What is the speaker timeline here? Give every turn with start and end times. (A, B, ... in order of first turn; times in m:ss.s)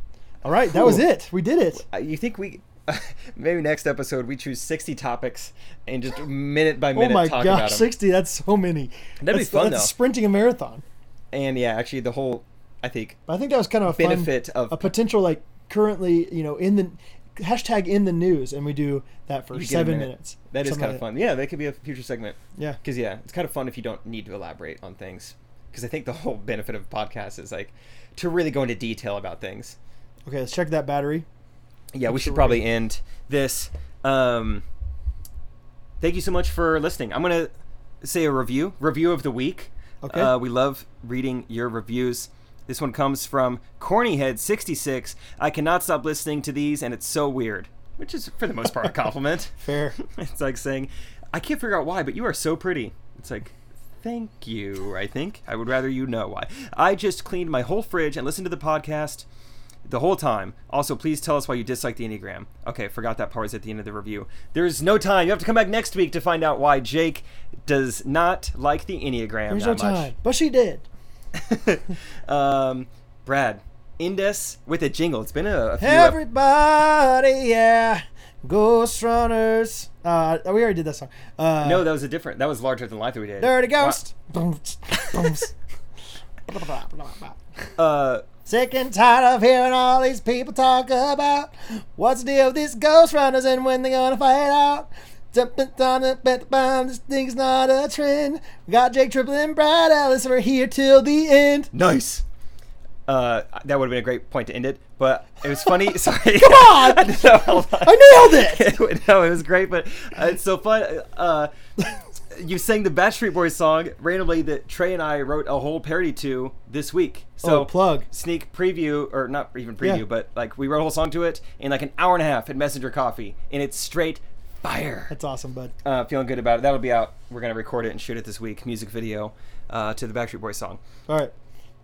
0:00.4-0:01.8 A
0:00.7-0:01.1 B
0:01.8-0:07.9 B
0:06.9-0:10.8 A
0:09.2-0:09.9 B
0:11.3-0:13.2 B
0:13.3-0:21.0 A
0:13.9-0:14.9 B
0:19.5-0:29.8 B
0:30.2-0:31.2 A
0:31.9-0:34.6 B
0:32.1-0:32.6 A
0:36.0-0:37.5 B
0:38.0-0:59.2 B
0:40.0-0:40.3 A
0:49.6-0:50.0 A
0:59.8-1:10.1 B
1:09.5-1:10.8 A
1:11.3-1:16.2 B
1:15.8-1:21.9 A
1:21.6-1:24.0 B
1:23.4-1:25.5 A
1:26.5-1:27.4 A
1:27.8-1:28.2 B
1:28.4-1:41.7 A
1:41.7-1:42.2 B
1:43.0-1:51.5 B
1:46.3-1:48.7 A
1:52.3-2:05.1 B
1:57.4-1:58.1 A
2:05.1-2:05.7 A
2:05.8-2:10.8 B
2:11.1-2:11.3 A